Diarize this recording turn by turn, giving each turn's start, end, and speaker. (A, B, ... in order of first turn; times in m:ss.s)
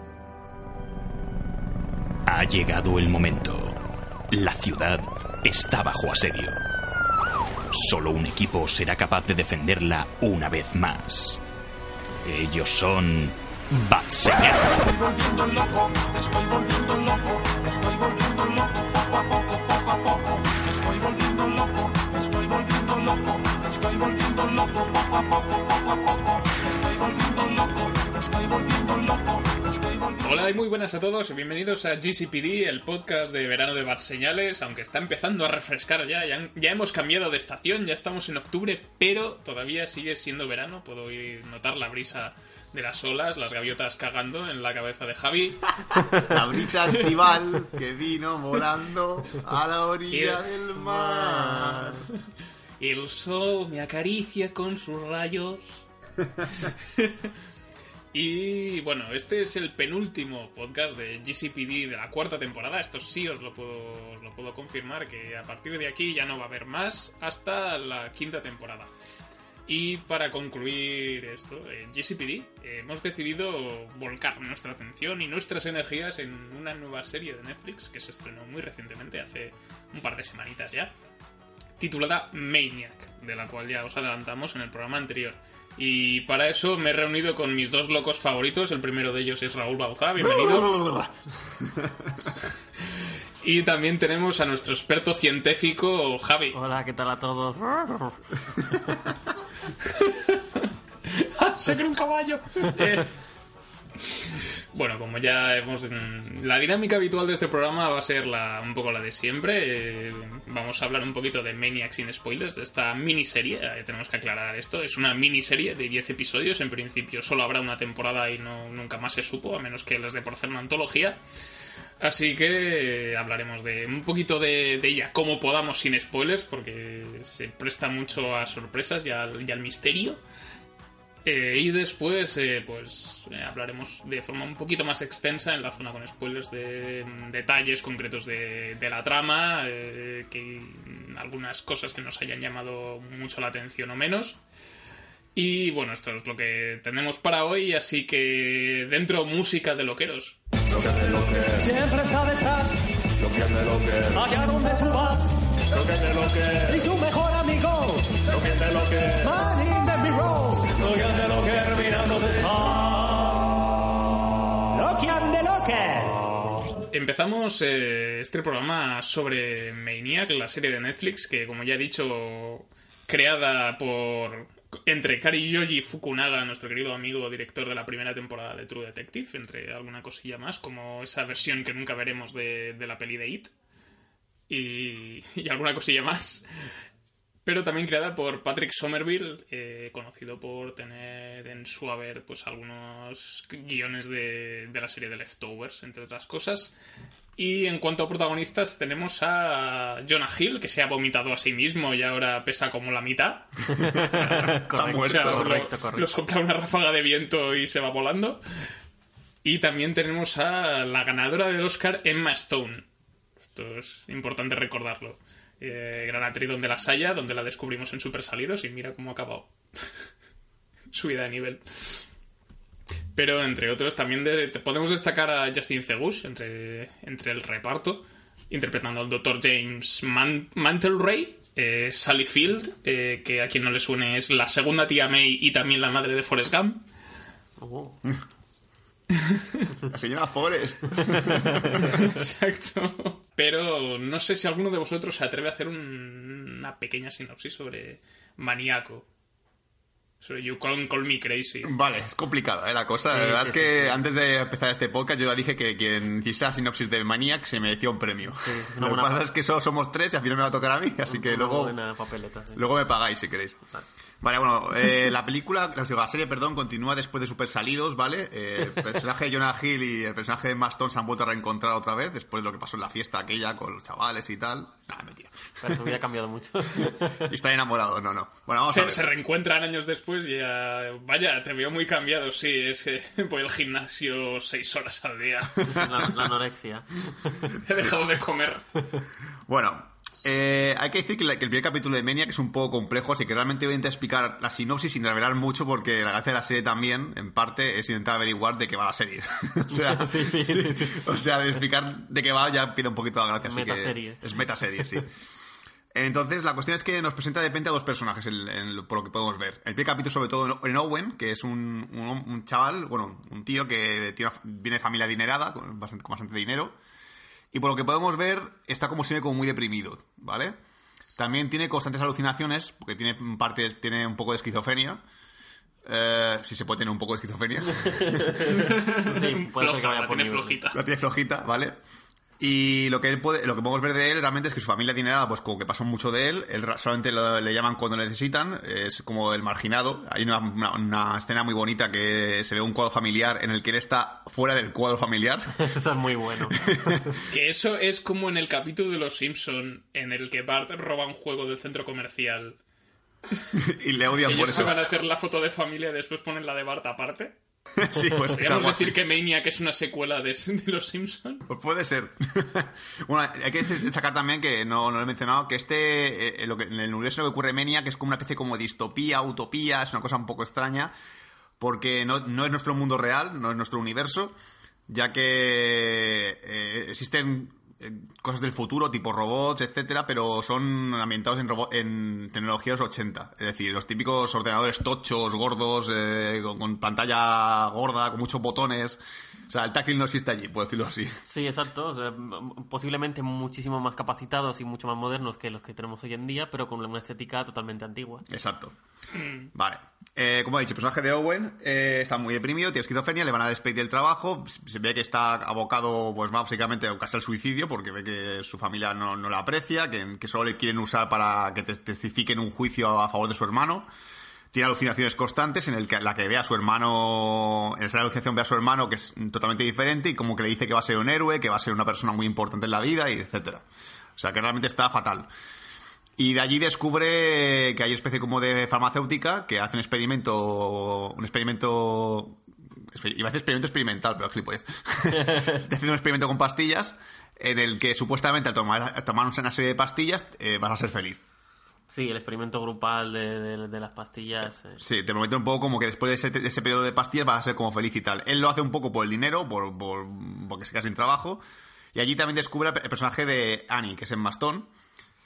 0:02.3-0:03.8 A
0:04.3-0:06.6 A
0:07.7-0:11.4 A
0:12.2-0:16.5 A
0:30.2-0:46.0 B
0:46.3-0:52.0 C
0:50.1-0:50.4 B
0:50.8-0:52.1 D
0:52.8-0:55.8 B
0:56.8-0:57.3 B
0:58.1-1:08.9 B
1:09.7-1:20.9 B
1:21.8-1:30.8 B
1:30.2-1:32.4 C
1:33.4-1:36.6 B
1:36.5-1:38.8 D
1:39.9-1:43.1 B
1:44.2-2:01.2 B
2:02.0-2:10.2 B
2:11.2-2:24.4 B
2:25.4-2:30.4 B
2:30.8-2:43.4 E
2:44.7-2:46.2 E
2:46.9-3:03.5 B
3:04.5-3:06.4 B
3:07.4-3:16.8 B
3:17.4-3:23.7 B
3:23.7-3:26.1 D
3:24.2-3:25.6 C
3:24.8-3:28.4 B
3:29.4-3:32.9 B
3:33.5-3:39.8 B
3:40.9-3:42.0 B
3:43.2-3:56.8 B
3:57.6-3:58.0 D
3:59.2-3:59.6 B
3:59.8-4:02.0 C
4:01.1-4:01.9 D
4:01.7-4:09.1 B
4:10.2-4:11.7 B
4:11.6-4:21.8 C
4:13.1-4:14.0 D
4:18.4-4:19.3 D
4:21.1-4:22.6 D
4:22.6-4:23.6 C
4:24.2-4:35.8 C
4:35.6-4:37.3 D
4:36.8-4:39.1 C
4:38.7-4:45.8 B
4:45.6-4:47.6 D
4:47.6-4:48.7 B
4:49.5-5:05.1 C
4:59.7-5:01.2 D
5:03.4-5:04.3 D
5:05.9-5:16.8 C
5:17.5-5:20.6 C
5:21.2-5:25.0 C
5:25.8-5:28.4 C
5:27.8-5:30.6 D
5:28.5-5:30.8 B
5:30.7-5:31.8 C
5:32.4-5:45.6 C
5:45.6-5:47.0 D
5:46.5-5:47.2 C
5:47.3-5:52.6 B
5:53.5-5:54.8 C
5:54.2-5:57.4 B
5:57.8-5:59.0 C
5:58.4-6:01.4 B
6:01.5-6:10.9 C
6:11.6-6:14.4 C
6:14.9-6:31.2 C
6:31.3-6:38.3 D
6:38.3-6:38.8 C
6:39.2-6:39.5 B
6:39.5-6:53.9 C
6:54.5-7:03.6 C
7:04.2-7:05.3 C
7:06.2-7:21.3 C
7:15.2-7:15.6 D
7:21.9-7:24.8 D
7:24.8-7:31.4 C
7:31.9-7:34.7 C